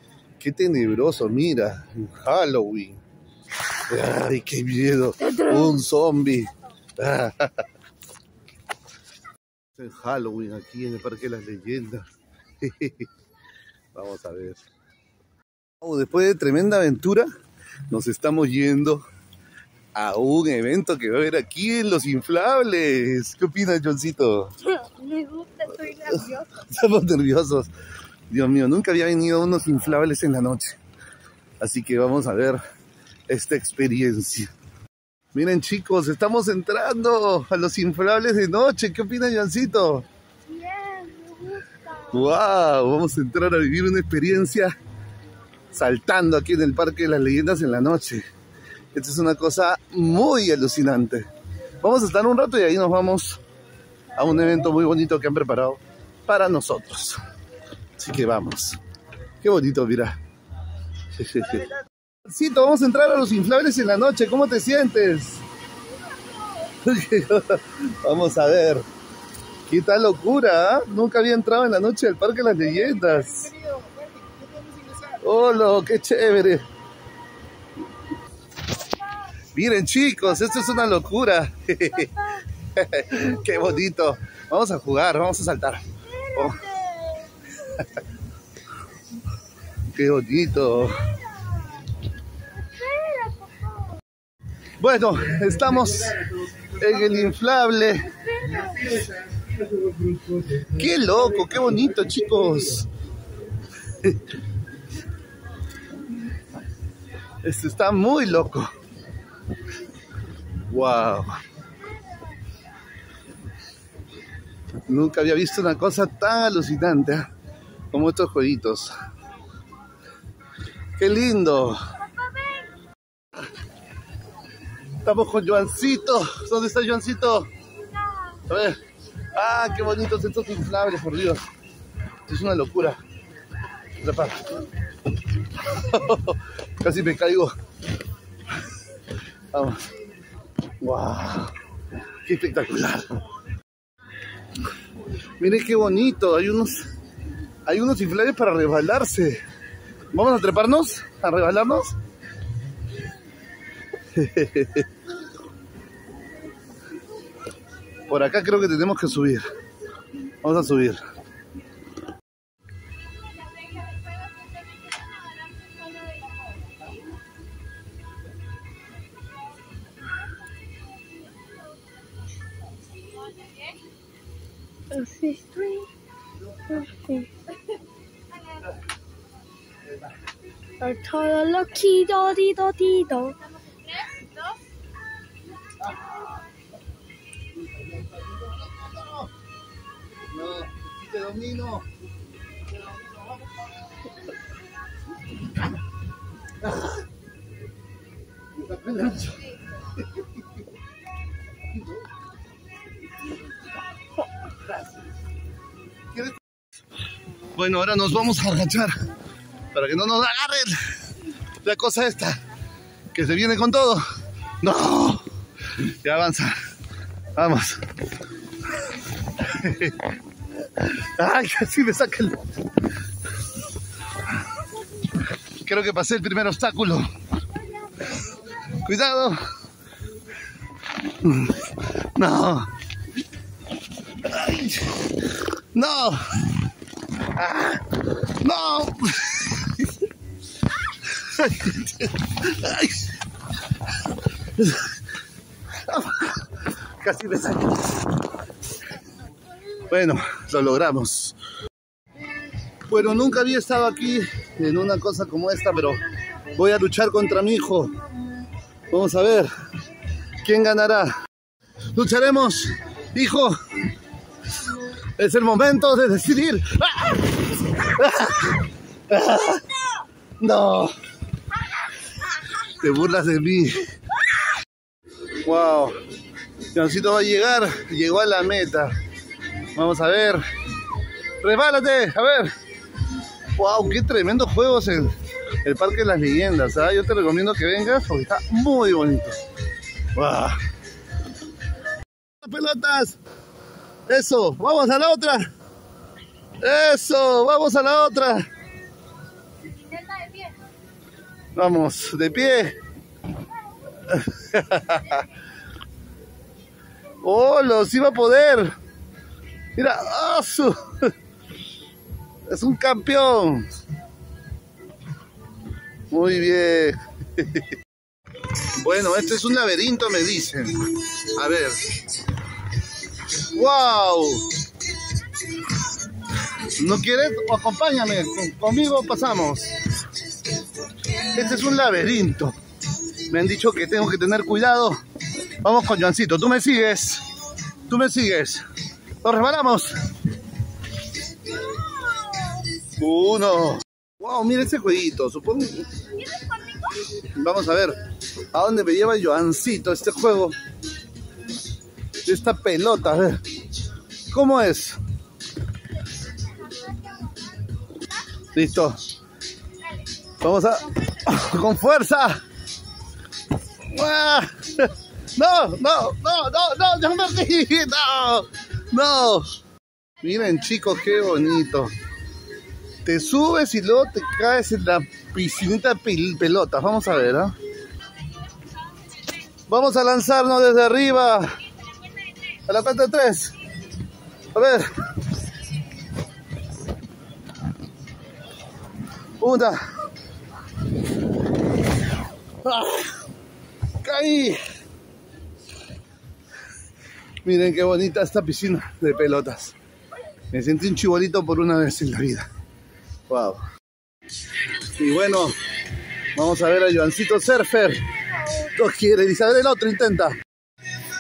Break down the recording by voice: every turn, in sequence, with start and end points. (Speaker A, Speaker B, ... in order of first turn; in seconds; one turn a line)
Speaker A: 0.4-3.0
Speaker A: 3.9-7.7
Speaker A: 9.8-12.1
Speaker A: 12.6-13.1
Speaker A: 13.9-14.6
Speaker A: 15.8-17.3
Speaker A: 17.9-19.1
Speaker A: 19.9-24.9
Speaker B: 24.8-26.4
Speaker A: 26.1-27.7
Speaker A: 28.3-30.8
Speaker A: 31.6-32.6
Speaker A: 33.3-34.5
Speaker A: 35.3-40.1
Speaker B: 40.5-42.1
Speaker A: 42.1-44.7
Speaker A: 45.7-48.2
Speaker A: 48.9-51.3
Speaker A: 51.8-53.4
Speaker A: 54.2-57.2
Speaker A: 58.0-58.8
Speaker A: 59.4-60.2
Speaker A: 61.1-61.7
Speaker A: 62.2-65.4
Speaker A: 66.6-68.8
Speaker A: 69.7-73.6
Speaker A: 75.0-76.6
Speaker A: 79.5-86.8
Speaker B: 86.6-87.3
Speaker A: 89.9-91.1
Speaker B: 92.7-94.0
Speaker A: 94.8-98.2
Speaker B: 98.4-99.0
Speaker A: 100.6-102.9
Speaker A: 104.0-104.2
Speaker A: 107.4-108.7
Speaker A: 110.7-111.4
Speaker A: 114.9-117.3
Speaker A: 117.9-119.0
Speaker A: 121.0-121.8
Speaker A: 125.0-127.5
Speaker A: 128.4-128.8
Speaker A: 129.3-131.4
Speaker A: 132.3-133.0
Speaker A: 134.0-134.6
Speaker A: 135.6-137.5
Speaker A: 139.5-139.9
Speaker A: 140.8-141.5
Speaker A: 142.2-143.2
Speaker A: 145.4-146.9
Speaker A: 147.7-149.4
Speaker A: 150.1-151.9
Speaker A: 154.1-154.9
Speaker A: 158.1-159.5
Speaker A: 160.4-161.1
Speaker B: 163.5-166.6
Speaker B: 173.2-173.8
Speaker B: 174.9-175.9
Speaker B: 176.7-177.3
Speaker B: 180.8-184.4
Speaker A: 187.8-189.3
Speaker A: 190.3-191.9
Speaker A: 198.6-199.6
Speaker A: 207.6-209.0
Speaker A: 209.7-210.8
Speaker A: 211.6-212.4
Speaker A: 213.1-214.0
Speaker A: 214.6-216.6
Speaker A: 217.3-217.9
Speaker A: 219.3-220.1
Speaker A: 220.7-222.6
Speaker A: 225.6-227.1
Speaker A: 228.7-229.4
Speaker A: 231.0-232.7
Speaker A: 234.2-236.5
Speaker A: 237.2-240.0
Speaker A: 241.0-243.1
Speaker A: 244.4-244.9
Speaker A: 245.8-248.1
Speaker A: 249.8-251.4
Speaker A: 252.9-258.0
Speaker A: 258.9-259.5
Speaker A: 260.4-261.1
Speaker A: 261.9-263.6
Speaker A: 265.2-269.8
Speaker A: 270.4-271.0
Speaker A: 272.6-273.9
Speaker A: 275.4-276.0
Speaker A: 276.7-279.0
Speaker A: 279.7-280.4
Speaker A: 281.4-282.5
Speaker A: 283.5-289.4
Speaker A: 290.1-290.6
Speaker A: 292.4-293.2
Speaker A: 294.1-295.5
Speaker A: 296.6-298.5
Speaker B: 299.9-300.5
Speaker A: 301.6-302.8
Speaker A: 304.1-305.3
Speaker A: 307.2-308.8
Speaker A: 309.8-311.1
Speaker A: 312.5-313.7
Speaker A: 316.1-317.7
Speaker A: 318.7-322.0
Speaker A: 323.3-324.6
Speaker A: 326.5-329.8
Speaker A: 331.0-332.6
Speaker A: 333.2-335.0
Speaker A: 335.6-337.2
Speaker A: 337.9-338.6
Speaker A: 339.2-340.0
Speaker A: 342.8-346.0
Speaker A: 347.0-348.0
Speaker A: 348.5-350.6
Speaker A: 352.2-353.5
Speaker A: 354.3-355.0
Speaker A: 358.5-359.0
Speaker A: 360.4-362.4
Speaker A: 363.9-369.5
Speaker A: 370.2-371.9
Speaker A: 373.0-377.5
Speaker A: 379.7-381.6
Speaker A: 382.6-383.6
Speaker A: 384.5-384.9
Speaker A: 389.4-389.8
Speaker A: 392.6-393.2
Speaker A: 394.0-394.6
Speaker A: 397.4-399.8
Speaker A: 400.5-402.5
Speaker A: 403.3-403.6
Speaker A: 404.8-405.6
Speaker A: 406.4-410.4